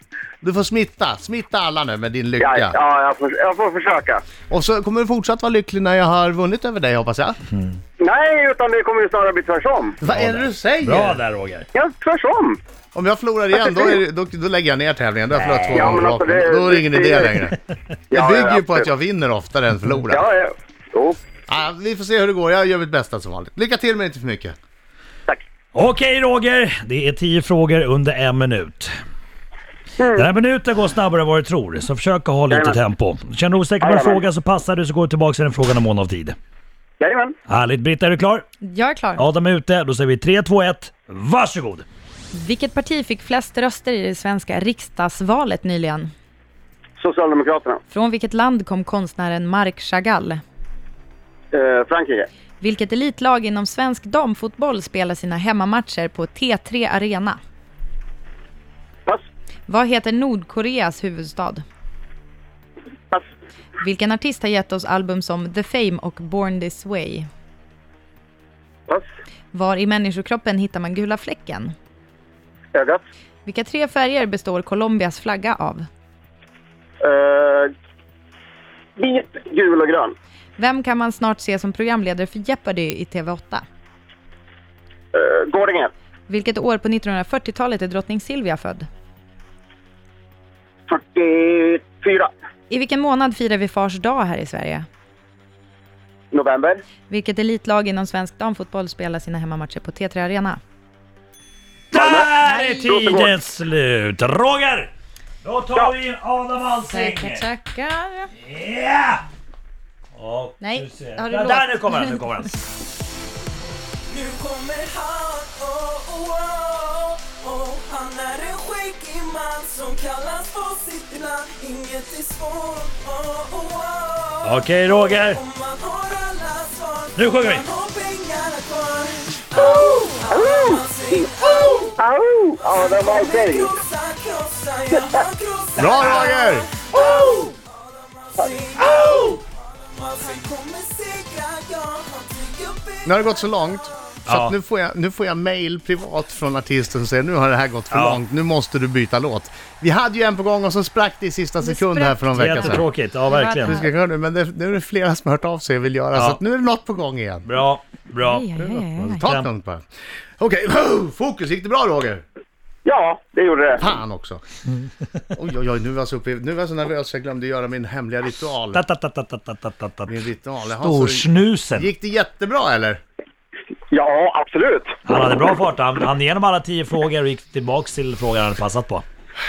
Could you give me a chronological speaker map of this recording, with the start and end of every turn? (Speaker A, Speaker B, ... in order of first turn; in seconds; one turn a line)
Speaker A: 0.4-2.8
Speaker B: 2.4-4.2
Speaker A: 4.5-7.4
Speaker C: 7.5-7.8
Speaker B: 8.0-10.0
Speaker A: 10.0-11.2
Speaker C: 10.1-11.7
Speaker B: 11.7-12.6
Speaker A: 12.9-17.6
Speaker B: 13.6-13.9
Speaker C: 15.3-16.0
Speaker B: 15.7-17.4
Speaker B: 18.1-18.9
Speaker A: 18.1-20.2
Speaker B: 20.1-21.2
Speaker A: 21.5-24.6
Speaker C: 25.7-28.9
Speaker B: 30.0-30.3
Speaker C: 30.1-36.4
Speaker B: 32.5-32.8
Speaker B: 33.8-34.2
Speaker B: 37.0-37.4
Speaker C: 37.5-38.4
Speaker D: 38.6-39.2
Speaker C: 39.2-41.9
Speaker D: 42.3-46.1
Speaker B: 47.0-47.8
Speaker D: 47.9-50.4
Speaker B: 51.5-52.3
Speaker D: 52.6-57.4
Speaker D: 59.7-61.6
Speaker D: 63.8-67.3
Speaker D: 69.5-71.8
Speaker B: 72.7-73.0
Speaker D: 73.5-75.9
Speaker B: 77.0-77.7
Speaker B: 79.0-80.2
Speaker D: 80.6-83.7
Speaker B: 85.1-85.9
Speaker D: 86.3-88.9
Speaker B: 90.9-92.3
Speaker D: 92.7-94.9
Speaker B: 96.3-96.8
Speaker D: 97.1-100.6
Speaker C: 101.9-104.9
Speaker B: 101.9-103.3
Speaker D: 102.4-102.8
Speaker C: 105.4-107.5
Speaker D: 106.9-108.3
Speaker C: 108.4-109.2
Speaker C: 110.2-112.5
Speaker D: 110.6-112.2
Speaker E: 114.1-132.0
Speaker C: 124.4-125.4
Speaker C: 127.2-127.7
Speaker B: 129.6-133.7
Speaker E: 132.7-143.3
Speaker A: 135.8-136.7
Speaker B: 136.9-137.4
Speaker C: 138.8-139.4
Speaker A: 143.1-152.8
Speaker C: 144.3-144.5
Speaker C: 147.9-148.2
Speaker D: 151.6-153.9
Speaker C: 152.3-153.8
Speaker A: 153.6-157.5
Speaker C: 156.1-156.4
Speaker C: 157.4-158.6
Speaker D: 158.2-159.2
Speaker A: 158.6-159.9
Speaker C: 159.2-159.5
Speaker A: 160.4-162.2
Speaker B: 162.8-163.8
Speaker A: 163.8-164.4
Speaker A: 165.3-168.8
Speaker C: 168.7-171.9
Speaker A: 170.1-173.0
Speaker B: 173.9-174.9
Speaker C: 175.1-179.1